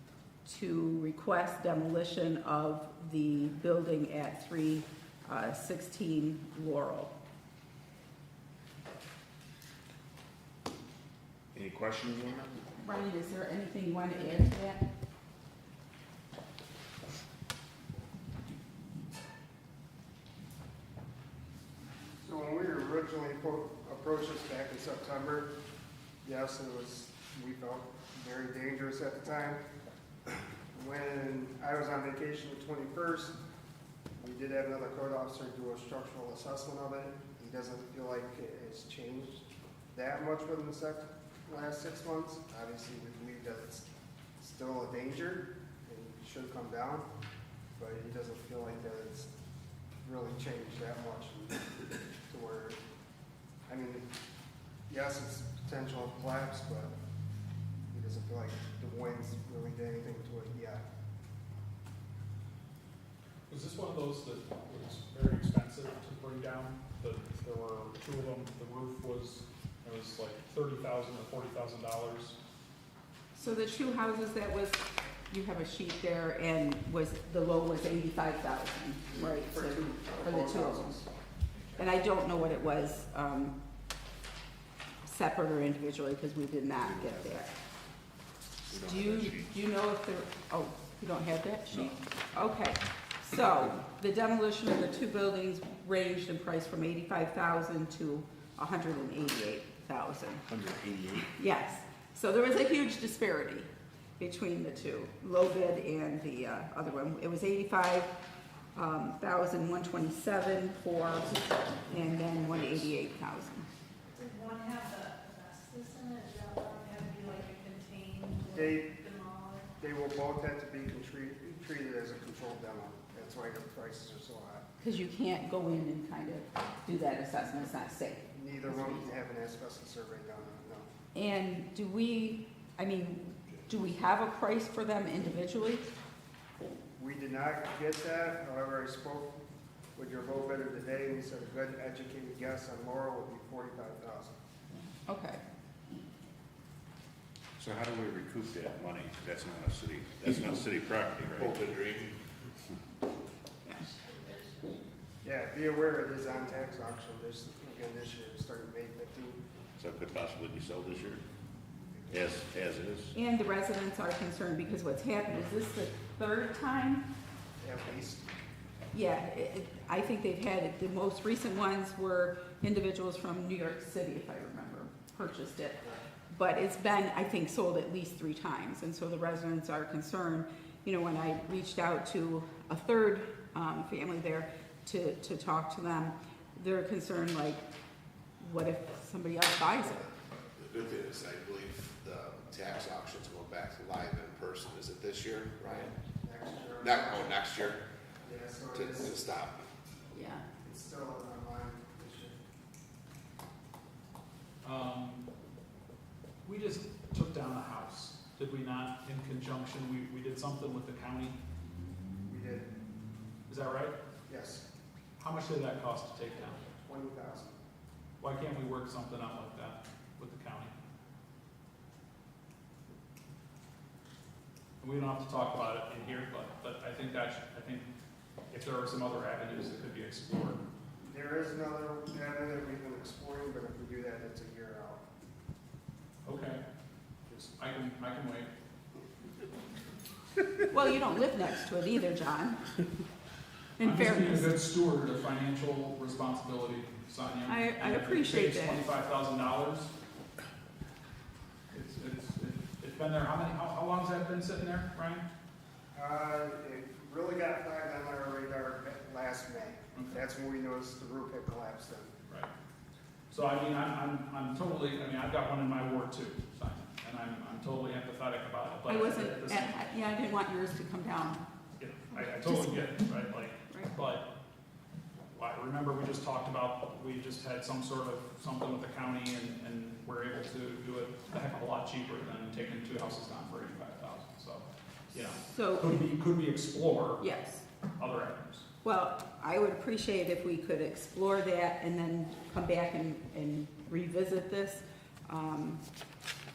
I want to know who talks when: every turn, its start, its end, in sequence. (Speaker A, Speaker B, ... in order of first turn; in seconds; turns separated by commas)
Speaker A: 0.4-7.1, Speaker B: 11.5-12.6, Speaker A: 12.8-14.8, Speaker C: 22.2-25.5, Speaker C: 26.2-29.6, Speaker C: 30.7-33.4, Speaker C: 34.2-43.9, Speaker C: 44.4-47.1, Speaker C: 47.8-49.3, Speaker C: 50.0-51.7, Speaker C: 52.3-52.8, Speaker C: 53.7-54.1, Speaker C: 54.9-56.9, Speaker C: 57.9-60.8, Speaker D: 63.5-72.4, Speaker A: 73.3-81.0, Speaker C: 79.1-81.1, Speaker A: 81.8-83.6, Speaker A: 85.0-87.5, Speaker B: 86.8-87.4, Speaker B: 88.7-89.5, Speaker A: 88.7-100.4, Speaker B: 91.7-92.0, Speaker B: 100.5-101.3, Speaker A: 101.3-108.1, Speaker A: 108.7-113.6, Speaker E: 114.1-119.7, Speaker C: 118.5-118.9, Speaker C: 119.8-124.6, Speaker A: 124.8-129.2, Speaker C: 128.3-130.9, Speaker A: 131.1-135.8, Speaker C: 136.9-139.4, Speaker C: 139.9-144.3, Speaker A: 145.1-145.4, Speaker B: 147.6-151.7, Speaker F: 151.4-152.2, Speaker E: 153.8-154.8, Speaker C: 155.2-159.4, Speaker B: 159.8-161.2, Speaker B: 162.1-163.1, Speaker A: 163.1-167.1, Speaker C: 167.6-168.2, Speaker A: 168.9-187.6, Speaker A: 188.4-190.1, Speaker F: 190.6-195.8, Speaker C: 195.6-199.2, Speaker F: 196.8-197.8, Speaker F: 198.8-199.6, Speaker A: 200.1-200.4, Speaker C: 200.6-202.4, Speaker D: 204.6-205.2, Speaker D: 206.4-211.4, Speaker C: 212.2-212.7, Speaker D: 213.5-213.9, Speaker C: 214.3-214.6, Speaker D: 215.2-216.6, Speaker C: 216.7-217.6, Speaker D: 218.2-220.7, Speaker D: 224.8-227.9, Speaker D: 228.5-230.6, Speaker C: 231.0-235.0, Speaker D: 236.2-236.6, Speaker D: 237.3-238.5, Speaker A: 240.7-242.6, Speaker A: 243.8-244.5, Speaker D: 243.8-249.9, Speaker A: 247.5-248.8, Speaker D: 251.7-255.2, Speaker C: 255.9-262.1, Speaker D: 263.3-269.8, Speaker A: 268.9-271.4, Speaker D: 271.8-274.2, Speaker A: 272.1-273.0, Speaker D: 275.3-287.2, Speaker A: 285.4-286.1, Speaker A: 287.2-287.6, Speaker D: 288.0-288.6, Speaker A: 288.8-295.8